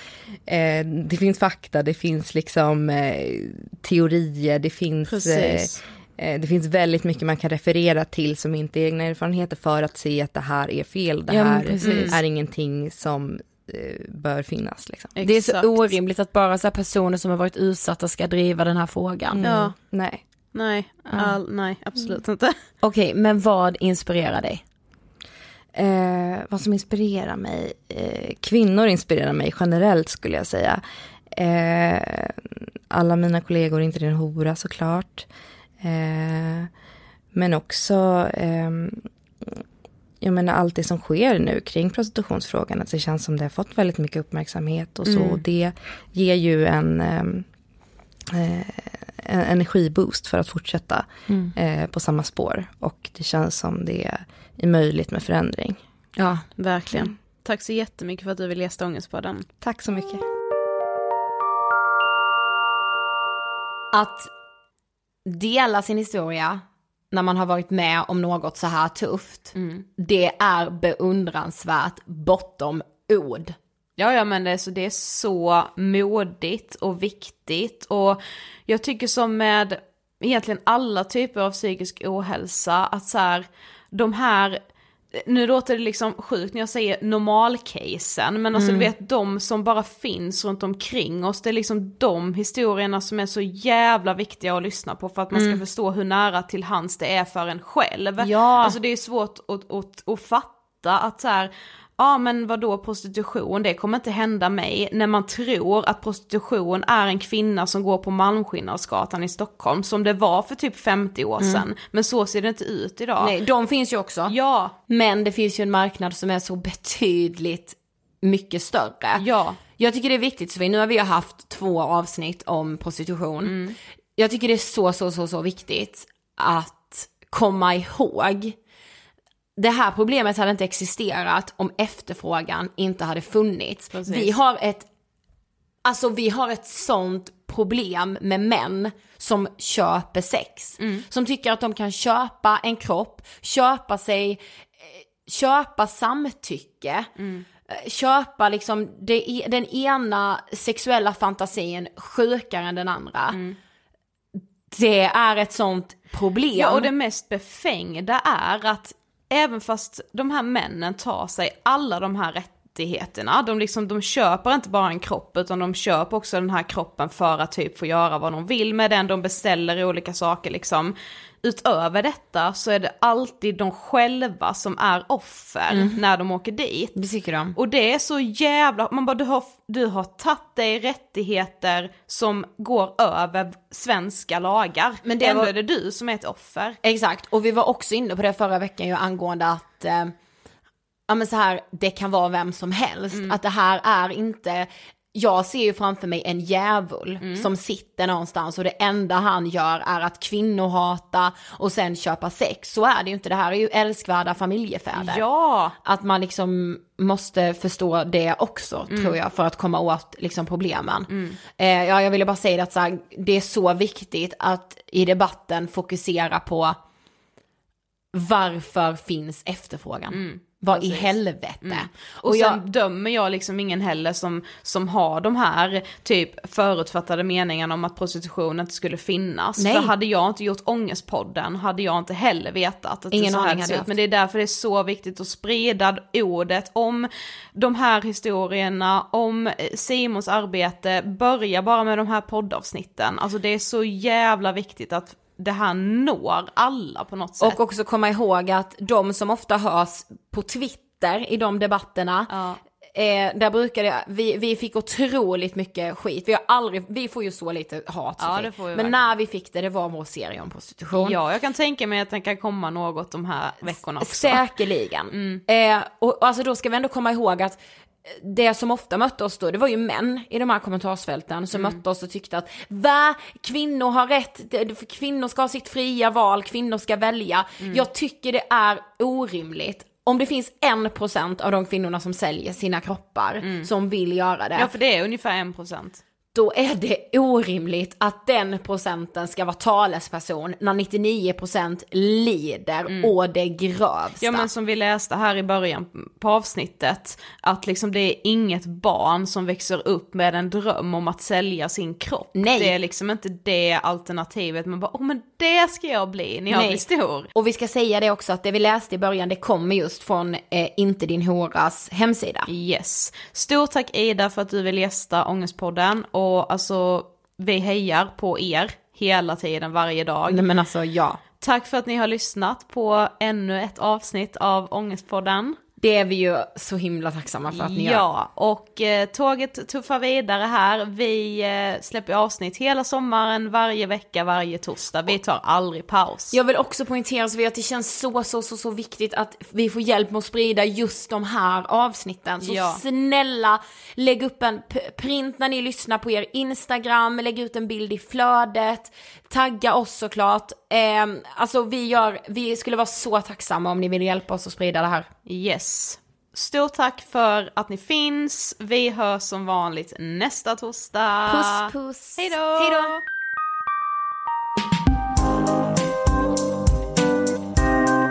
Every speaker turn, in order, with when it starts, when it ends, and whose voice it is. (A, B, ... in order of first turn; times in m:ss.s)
0:00.4-0:15.1 A
0:05.1-0:05.8 B
0:11.3-0:12.2 C
0:11.8-0:12.1 B
0:15.2-0:15.8 B
0:15.2-0:19.4 C
0:19.4-0:20.2 A
0:19.4-0:19.7 B
0:20.5-0:22.6 B
0:21.1-0:21.4 C
0:22.8-0:24.6 C
0:25.7-0:35.3 A
0:35.8-0:36.7 A
0:37.3-0:39.6 A
0:40.2-0:47.4 A
0:45.0-0:45.4 B
0:48.3-0:55.8 A
0:51.3-0:51.5 C
0:56.2-0:56.4 C
0:56.6-0:59.4 B
0:59.6-1:00.2 A
1:03.9-1:04.3 C
1:05.2-1:13.6 C
1:14.0-1:24.6 B
1:25.1-1:53.3 B
1:28.5-1:28.9 C
1:35.3-1:35.6 C
1:38.2-1:38.8 C
1:51.4-1:51.6 C
1:53.2-1:54.3 C
1:54.3-1:54.7 B
1:54.9-1:59.2 C
1:59.2-1:59.6 B
1:59.8-2:03.6 C
2:03.4-2:03.8 B
2:04.2-2:08.6 C
2:09.6-2:14.9 C
2:13.9-2:14.3 B
2:15.8-2:27.1 C
2:20.8-2:21.0 B
2:27.2-2:27.4 B
2:27.7-2:33.4 C
2:33.3-2:33.6 B
2:34.4-2:36.9 C
2:36.6-2:57.0 B
2:55.7-2:56.0 C
2:57.0-2:57.6 C
2:57.5-3:06.8 B
3:05.0-3:05.5 C
3:06.8-3:10.1 C
3:11.1-3:25.2 C
3:17.2-3:17.5 B
3:25.0-3:25.8 B
3:25.8-3:36.8 C
3:28.9-3:29.2 B
3:31.1-3:31.4 B
3:38.1-3:42.6 C
3:40.1-4:07.6 B
3:49.6-3:49.9 C
3:53.1-3:53.9 C
4:07.4-4:12.3 C
4:12.3-4:12.6 B
4:12.9-4:21.2 C
4:18.2-4:19.1 B
4:20.9-4:24.4 B
4:23.6-4:44.7 C
4:25.1-4:25.4 B
4:31.5-4:31.8 B
4:43.4-4:43.7 B
4:44.6-4:46.0 B
4:46.3-4:54.5 C
4:54.2-5:07.3 B
5:02.4-5:02.7 C
5:06.5-5:06.8 C
5:07.3-5:12.5 C
5:12.5-5:20.4 B
5:20.3-5:21.2 C
5:21.4-5:25.6 B
5:25.8-5:28.0 C
5:27.5-5:36.4 B
5:36.3-5:55.1 C
5:42.4-5:42.8 B
5:55.2-6:03.0 B
6:01.6-6:02.9 C